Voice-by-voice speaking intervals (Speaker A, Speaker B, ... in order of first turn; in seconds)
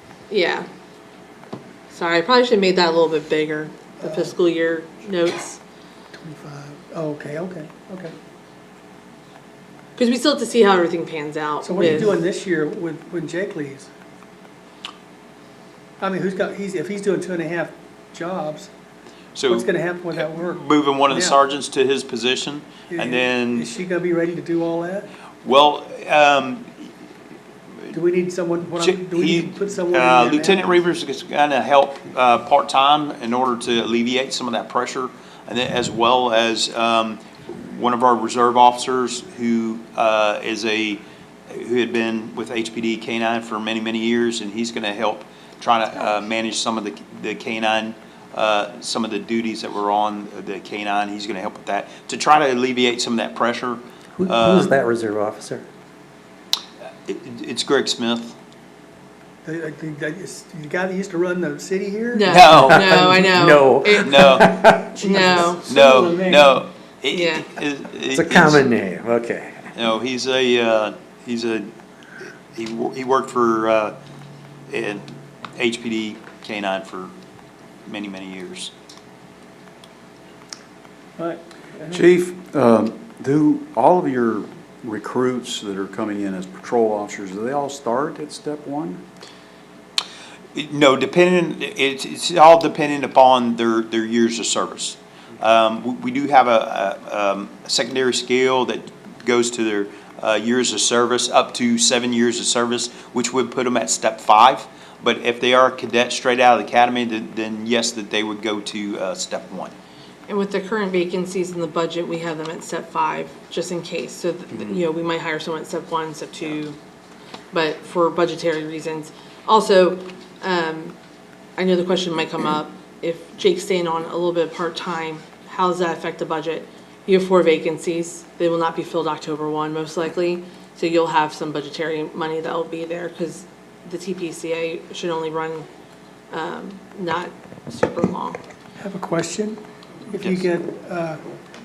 Speaker A: 0.3-0.7, 1.9-5.6, 9.9-12.2, 62.1-65.7, 67.1-67.5, 110.3-116.8, 117.5-121.0, 121.6-135.7, 136.3-138.4
Speaker B: 4.0-4.3, 6.1-8.1, 11.6-13.9, 16.0-18.7, 19.5-21.4, 22.9-25.1, 27.9-30.7, 59.4-62.5, 65.0-66.6, 81.2-82.0, 138.8-141.2
Speaker C: 19.3-19.6, 20.2-23.7, 25.4-26.7, 28.8-54.7, 57.1-58.3, 62.3-62.8, 64.0-64.6, 65.7-68.6, 69.7-71.7, 72.5-74.0, 74.7-77.1, 77.9-78.7, 90.5-109.7, 140.2-140.4
Speaker D: 54.2-55.6, 62.6-65.0, 68.1-69.7
Speaker E: 81.9-89.0